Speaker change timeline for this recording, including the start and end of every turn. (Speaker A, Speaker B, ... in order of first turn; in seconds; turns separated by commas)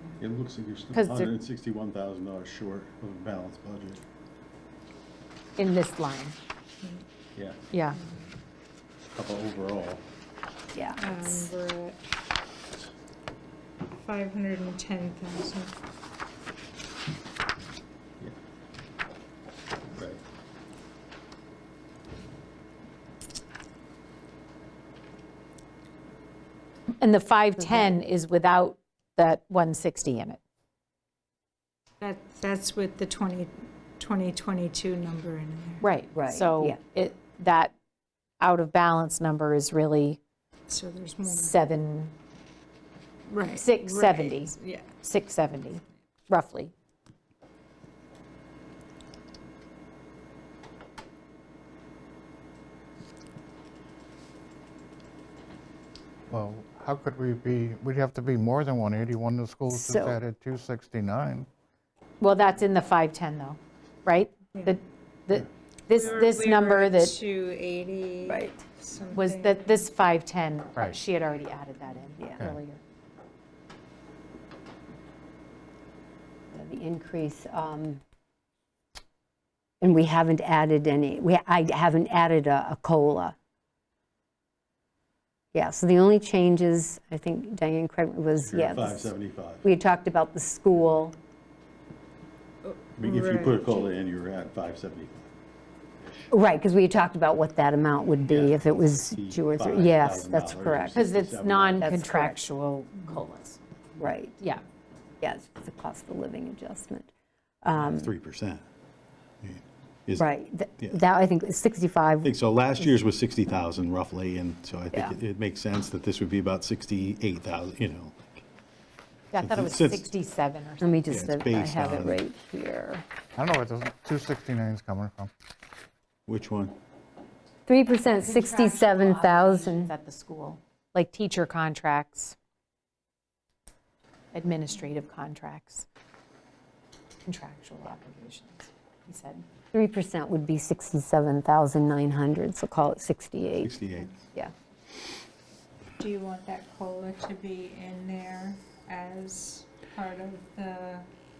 Speaker A: 0.2-4.0, Speaker B: 0.9-1.3, Speaker B: 5.6-6.3, Speaker B: 7.7-8.0, Speaker A: 9.2-10.0, Speaker C: 10.7-11.5, Speaker D: 11.0-12.0, Speaker D: 14.0-15.7, Speaker B: 27.0-30.4, Speaker C: 27.6-27.9, Speaker D: 32.0-35.9, Speaker B: 35.8-37.7, Speaker C: 36.1-36.8, Speaker B: 38.4-40.2, Speaker D: 40.7-41.6, Speaker B: 41.3-42.1, Speaker D: 43.3-44.9, Speaker B: 43.5-46.7, Speaker E: 56.3-61.5, Speaker C: 59.7-60.1, Speaker B: 62.2-67.2, Speaker D: 65.9-69.7, Speaker C: 68.3-68.5, Speaker B: 69.1-72.8, Speaker C: 76.5-78.0, Speaker C: 79.8-83.3, Speaker C: 85.5-89.1, Speaker A: 88.4-89.6, Speaker C: 89.6-91.2, Speaker D: 92.6-93.8, Speaker A: 92.9-95.2, Speaker A: 96.0-96.3, Speaker C: 96.3-101.0, Speaker A: 98.2-101.9, Speaker B: 100.9-103.6, Speaker C: 101.8-102.5, Speaker C: 104.0-104.4, Speaker C: 105.2-107.1, Speaker C: 107.6-108.1, Speaker A: 107.7-108.6, Speaker A: 109.4-111.0, Speaker C: 110.2-112.9, Speaker A: 112.2-118.2, Speaker B: 119.3-121.0, Speaker A: 119.4-120.0, Speaker C: 120.8-123.0, Speaker A: 121.1-122.2, Speaker E: 123.3-125.3, Speaker A: 126.3-126.7, Speaker C: 127.7-129.9, Speaker B: 128.2-132.3, Speaker B: 134.3-135.9, Speaker B: 137.2-139.4, Speaker C: 139.7-143.8, Speaker A: 143.6-144.1, Speaker D: 146.0-151.1